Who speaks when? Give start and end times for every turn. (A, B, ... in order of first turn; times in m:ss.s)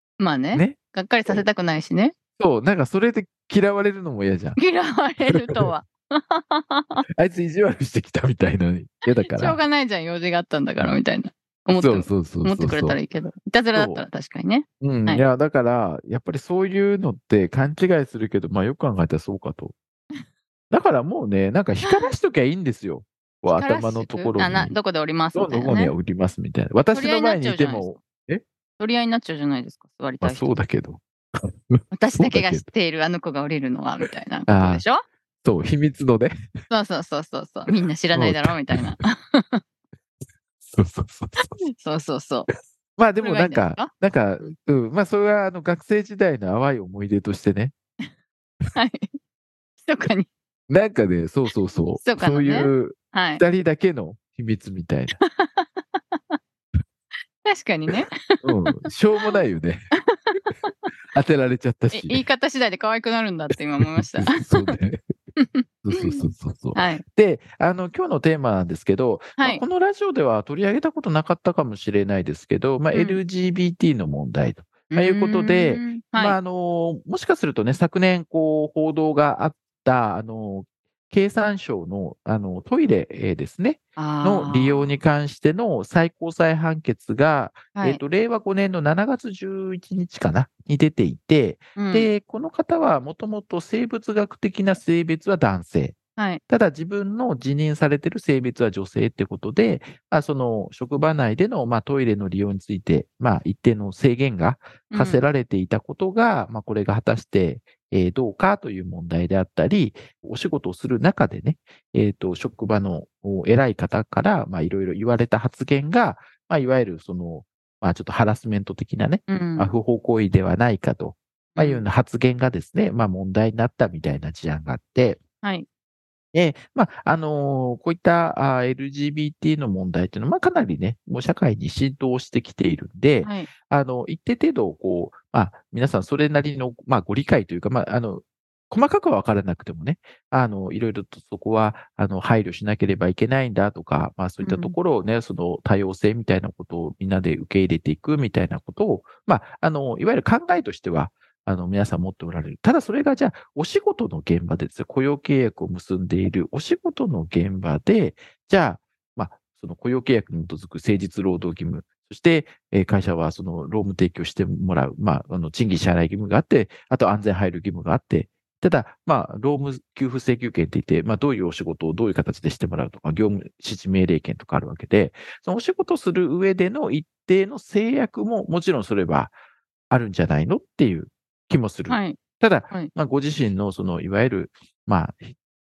0:00.2-0:02.1 A
0:00.5-0:01.4 B
0:02.4-0:04.6 B
0:04.6-0:07.0 A
0:05.2-0:05.7 B
0:07.1-0:09.6 B
0:09.1-0:15.2 A
0:11.7-0:13.0 B
0:13.7-0:14.0 B
0:14.8-0:19.7 B
0:20.7-0:24.8 B
0:21.9-0:22.1 A
0:23.5-0:25.9 A
0:25.3-0:28.4 B
0:26.9-0:27.9 A
0:28.8-0:30.6 A
0:30.2-0:31.0 B
0:31.7-0:32.6 B
0:31.9-0:35.0 A
0:34.0-0:34.8 B
0:35.4-0:36.3 B
0:36.7-0:39.6 A
0:38.1-0:38.9 B
0:40.6-0:41.6 B
0:41.4-0:42.5 A
0:43.0-0:47.7 B
0:43.2-0:44.5 A
0:48.7-0:49.2 A
0:49.8-0:50.3 A
0:50.7-0:55.2 B
0:52.0-0:53.4 A
0:55.2-0:56.4 A
0:57.4-0:58.5 A
0:58.4-0:59.9 B
1:00.1-1:00.9 A
1:01.1-1:02.2 B
1:01.9-1:04.7 A
1:03.8-1:05.0 B
1:05.4-1:07.0 A
1:05.8-2:05.2 B
1:12.9-1:13.2 A
1:14.9-1:16.4 A
1:24.0-1:24.9 A
1:27.8-1:28.0 A
1:31.8-1:32.1 A
1:44.9-1:45.2 A
1:59.3-1:59.7 A
2:01.5-2:01.8 A
2:06.3-2:59.3 B
2:13.2-2:13.5 A
2:24.4-2:24.7 A
2:59.9-3:05.4 B
3:01.9-3:02.2 A